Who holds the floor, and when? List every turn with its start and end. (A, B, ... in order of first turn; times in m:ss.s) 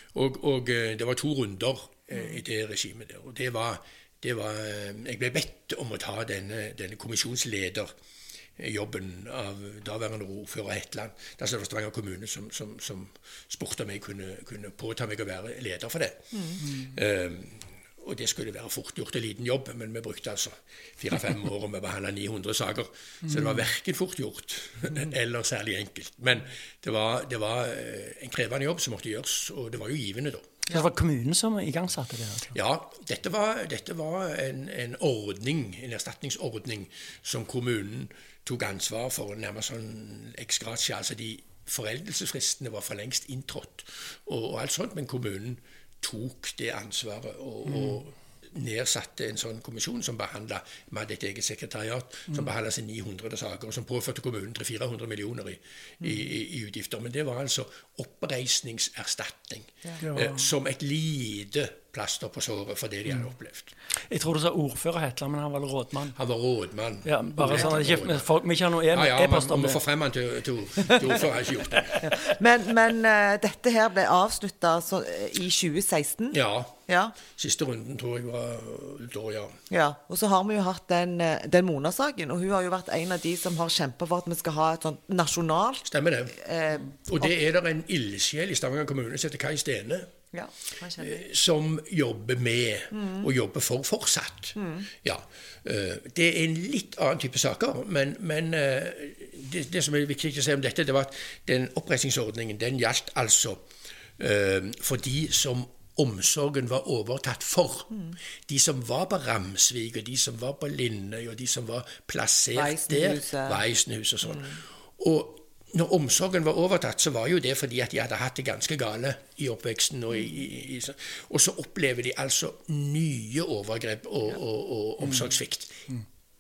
0:00.1-0:07.9 A
0:08.6-0:30.5 A
0:16.3-0:16.6 B
0:30.7-0:32.6 C
0:32.5-1:03.7 A
1:00.0-1:00.5 C
1:04.1-1:06.2 C
1:06.2-1:08.3 A
1:07.0-1:09.8 C
1:08.9-1:12.0 A
1:12.0-1:17.2 B
1:16.3-1:19.6 A
1:19.7-1:27.3 B
1:25.9-1:26.4 A
1:26.9-1:30.1 A
1:30.3-1:31.2 B
1:31.0-2:05.9 A
1:32.9-1:33.3 B
1:34.6-1:34.9 B
1:52.6-1:53.6 B